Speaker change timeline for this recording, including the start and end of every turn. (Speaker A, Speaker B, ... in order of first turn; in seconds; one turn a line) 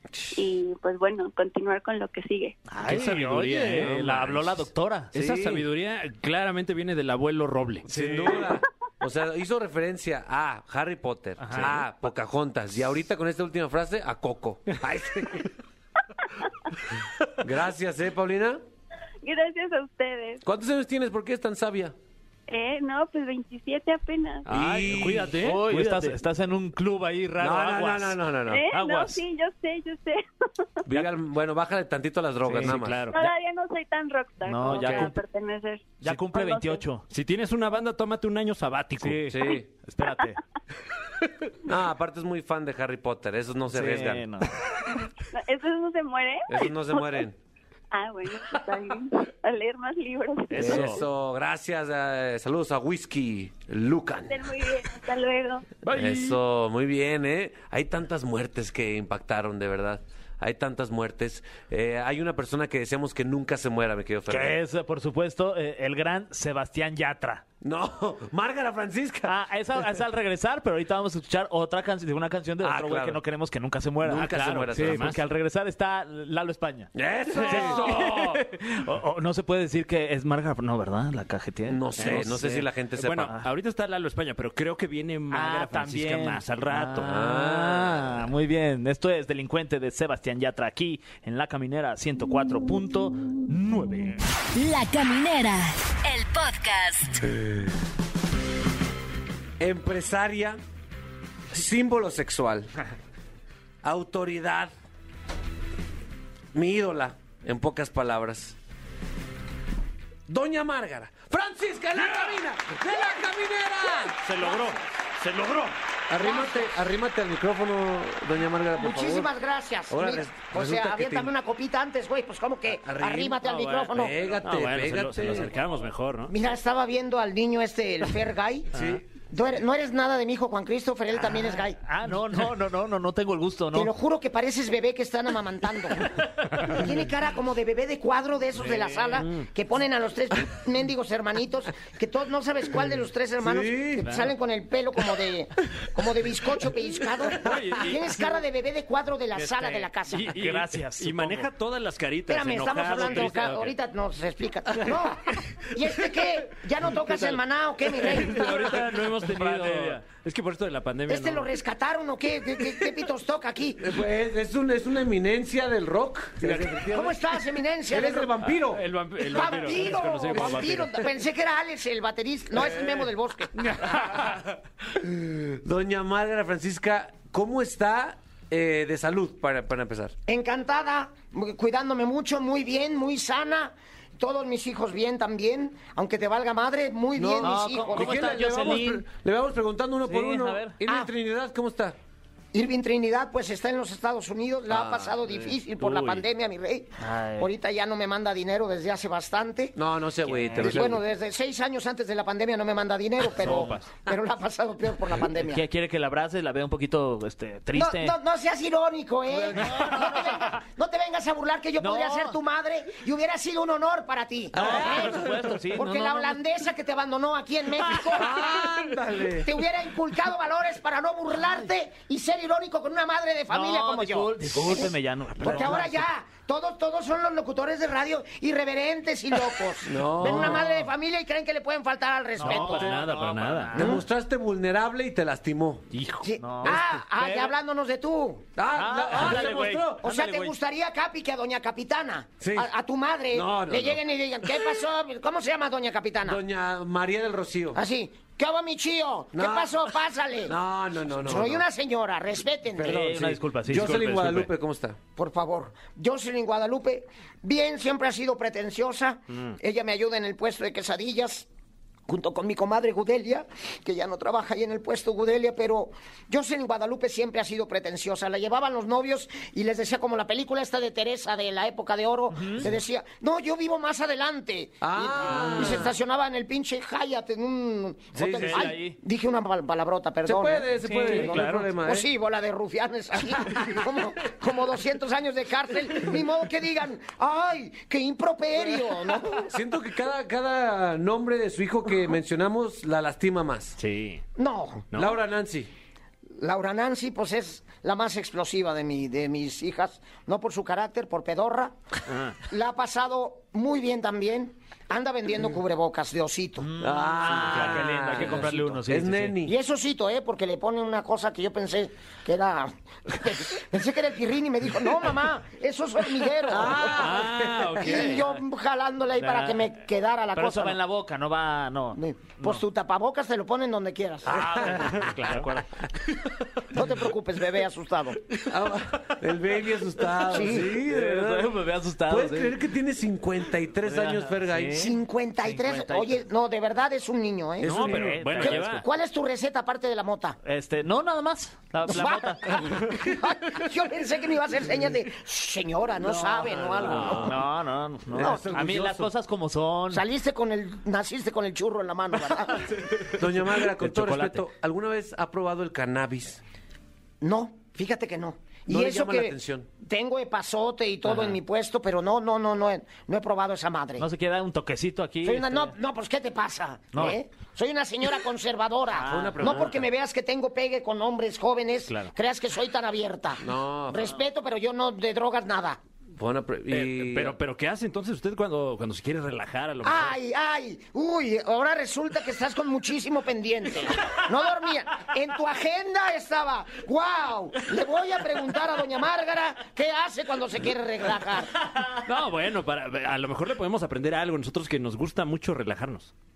Speaker A: 0.1-0.4
Speaker B: 0.3-2.6
Speaker C: 2.7-5.1
Speaker D: 2.8-8.4
Speaker A: 3.8-4.1
Speaker A: 5.1-5.6
Speaker A: 7.9-15.5
Speaker C: 8.0-8.4
Speaker C: 11.4-11.8
Speaker D: 11.5-11.8
Speaker A: 17.4-18.6
Speaker B: 19.2-20.4
Speaker A: 20.4-21.9
Speaker B: 22.5-24.4
Speaker D: 24.5-26.2
Speaker A: 24.5-25.4
Speaker C: 25.2-29.2
Speaker A: 27.4-28.7
Speaker B: 28.5-30.7
Speaker A: 30.9-33.0
Speaker D: 32.4-33.1
Speaker C: 32.5-33.3
Speaker B: 33.1-36.8
Speaker C: 34.5-35.1
Speaker C: 36.0-37.0
Speaker D: 37.1-39.2
Speaker C: 39.0-40.4
Speaker A: 39.3-39.7
Speaker A: 41.6-44.2
Speaker C: 43.7-44.5
Speaker B: 44.9-47.2
Speaker A: 46.5-47.4
Speaker B: 47.9-50.9
Speaker C: 50.5-51.0
Speaker A: 50.5-54.5
Speaker D: 50.5-51.0
Speaker B: 54.3-55.7
Speaker D: 55.8-56.4
Speaker A: 55.9-64.5
Speaker C: 64.3-67.4
Speaker A: 67.6-69.3
Speaker C: 69.2-82.6
Speaker A: 72.6-73.2
Speaker A: 74.0-75.1
Speaker D: 74.7-75.2
Speaker A: 76.9-78.2
Speaker D: 77.3-78.4
Speaker A: 81.7-83.3
Speaker D: 82.0-87.1
Speaker C: 85.3-94.2
Speaker A: 87.0-88.1
Speaker E: 94.5-97.3
Speaker A: 97.2-97.6
Speaker A: 99.6-100.6
Speaker A: 101.5-102.7
Speaker A: 103.8-104.7
Speaker A: 106.5-108.5
Speaker A: 110.3-114.6
Speaker D: 114.0-115.7
Speaker A: 116.1-119.3
Speaker F: 116.2-116.8
Speaker F: 118.8-124.2
Speaker A: 119.9-121.3
Speaker A: 122.8-125.5
Speaker D: 123.4-126.3
Speaker F: 126.3-128.7
Speaker D: 128.7-129.0
Speaker A: 128.8-129.0
Speaker F: 129.2-131.8
Speaker C: 131.2-133.9
Speaker F: 133.7-150.3
Speaker C: 138.8-139.1
Speaker A: 143.4-144.1
Speaker D: 147.4-148.4
Speaker C: 149.3-151.5
Speaker D: 150.1-153.7
Speaker F: 152.3-158.7
Speaker C: 152.8-153.6
Speaker D: 156.9-161.5
Speaker C: 158.3-160.0
Speaker F: 161.1-164.0
Speaker A: 163.8-167.2
Speaker F: 166.8-168.3
Speaker A: 167.9-168.8
Speaker D: 168.4-171.0
Speaker F: 169.2-173.5
Speaker A: 169.4-169.7
Speaker A: 170.3-170.8
Speaker A: 173.6-174.4
Speaker D: 174.0-174.3
Speaker A: 174.9-180.1
Speaker F: 180.3-188.4
Speaker A: 187.2-191.9
Speaker C: 187.4-189.0
Speaker C: 190.0-190.8
Speaker F: 192.5-199.8
Speaker A: 194.7-195.4
Speaker D: 195.8-196.2
Speaker C: 197.0-197.5
Speaker A: 199.8-201.0
Speaker C: 200.3-200.9
Speaker F: 200.5-205.6
Speaker D: 203.4-203.9
Speaker C: 203.5-203.7
Speaker C: 205.4-208.2
Speaker F: 207.7-218.7
Speaker A: 209.3-210.2
Speaker C: 209.6-210.5
Speaker C: 211.8-212.4
Speaker A: 214.5-215.6
Speaker C: 214.5-216.4
Speaker A: 218.0-219.5
Speaker F: 219.3-233.0
Speaker C: 223.5-226.0
Speaker A: 225.5-225.7
Speaker A: 229.8-230.7
Speaker C: 230.2-230.8
Speaker C: 232.4-234.0
Speaker D: 232.4-233.8
Speaker A: 232.6-233.2
Speaker A: 233.7-235.8
Speaker F: 233.7-234.0
Speaker D: 235.9-236.3
Speaker F: 236.2-238.5
Speaker C: 236.4-237.5
Speaker A: 236.6-236.9
Speaker A: 238.6-240.1
Speaker C: 238.7-240.5
Speaker F: 240.0-246.4
Speaker A: 242.4-242.7
Speaker A: 243.3-244.0
Speaker A: 246.2-247.8
Speaker F: 247.7-250.6
Speaker A: 249.3-249.8
Speaker A: 250.5-251.6
Speaker F: 251.1-253.0
Speaker A: 252.8-255.0
Speaker C: 252.8-254.5
Speaker F: 255.2-261.4
Speaker F: 262.1-289.5
Speaker C: 272.3-272.7
Speaker A: 274.8-275.9
Speaker C: 275.5-275.8
Speaker A: 278.1-278.7
Speaker C: 278.2-279.0
Speaker A: 280.2-282.1
Speaker C: 280.8-281.7
Speaker A: 289.5-293.8
Speaker D: 293.8-294.2
Speaker F: 294.4-294.9
Speaker D: 294.9-295.2
Speaker A: 294.9-295.7
Speaker F: 296.4-301.8
Speaker D: 302.1-302.4
Speaker F: 302.5-306.7
Speaker C: 306.6-309.4
Speaker A: 306.8-309.5
Speaker D: 307.5-308.8
Speaker F: 309.4-320.8
Speaker A: 316.5-317.8
Speaker D: 316.8-318.3
Speaker C: 317.0-318.2
Speaker C: 319.2-319.7
Speaker C: 320.3-322.6
Speaker F: 321.9-324.4
Speaker C: 324.3-325.6
Speaker A: 324.4-325.0
Speaker D: 324.8-325.6
Speaker F: 326.7-328.2
Speaker A: 328.4-334.8
Speaker F: 330.3-330.7
Speaker C: 330.3-332.6
Speaker C: 333.8-336.2
Speaker F: 334.8-340.4
Speaker D: 337.6-338.8
Speaker A: 337.6-338.3
Speaker C: 337.6-338.8
Speaker C: 340.4-342.9
Speaker F: 341.9-347.4
Speaker C: 346.0-350.0
Speaker A: 346.4-347.3
Speaker A: 348.1-349.1
Speaker F: 348.2-348.5
Speaker F: 349.9-352.7
Speaker C: 353.0-354.4
Speaker A: 353.1-356.4
Speaker F: 357.2-364.1
Speaker A: 358.7-359.7
Speaker C: 361.1-361.4
Speaker C: 364.0-365.7
Speaker F: 365.2-375.8
Speaker C: 366.9-367.2
Speaker C: 368.9-369.7
Speaker A: 369.0-369.7
Speaker A: 373.4-374.1
Speaker A: 376.2-377.4
Speaker D: 376.7-380.2
Speaker F: 379.8-391.6
Speaker D: 392.0-396.1